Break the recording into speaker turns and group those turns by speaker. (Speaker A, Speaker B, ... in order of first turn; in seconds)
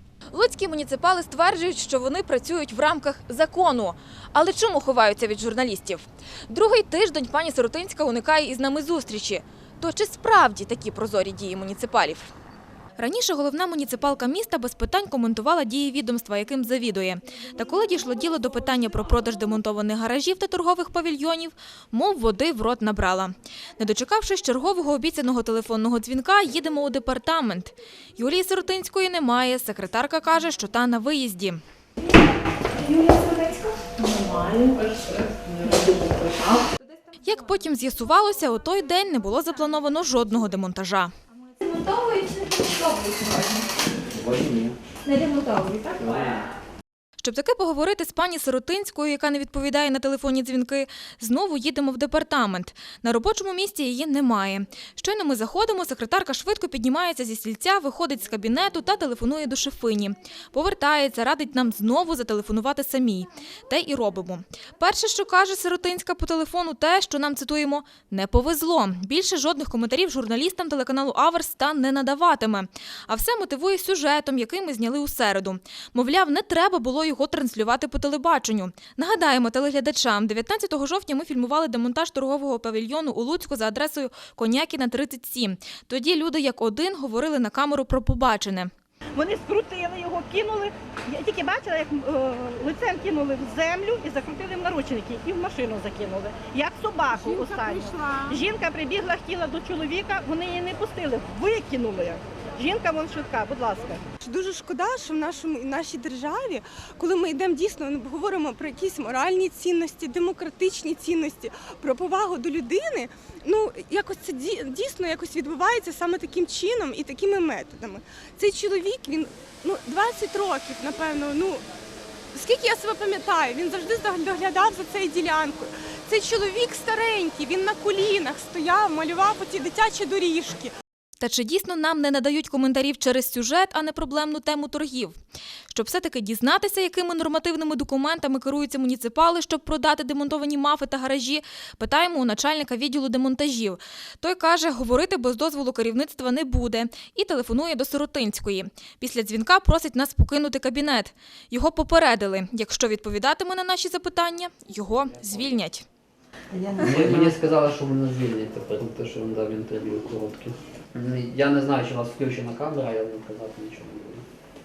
Speaker A: 0.3-12.3, 13.0-31.6, 37.2-41.1, 47.2-88.7, 131.2-135.2, 135.7-155.8
Speaker B: 32.8-36.6, 41.6-43.7, 45.1-46.4
Speaker C: 44.1-44.8, 46.0-46.5, 156.8-164.2
Speaker D: 89.2-104.1
Speaker E: 104.2-121.7, 122.3-130.7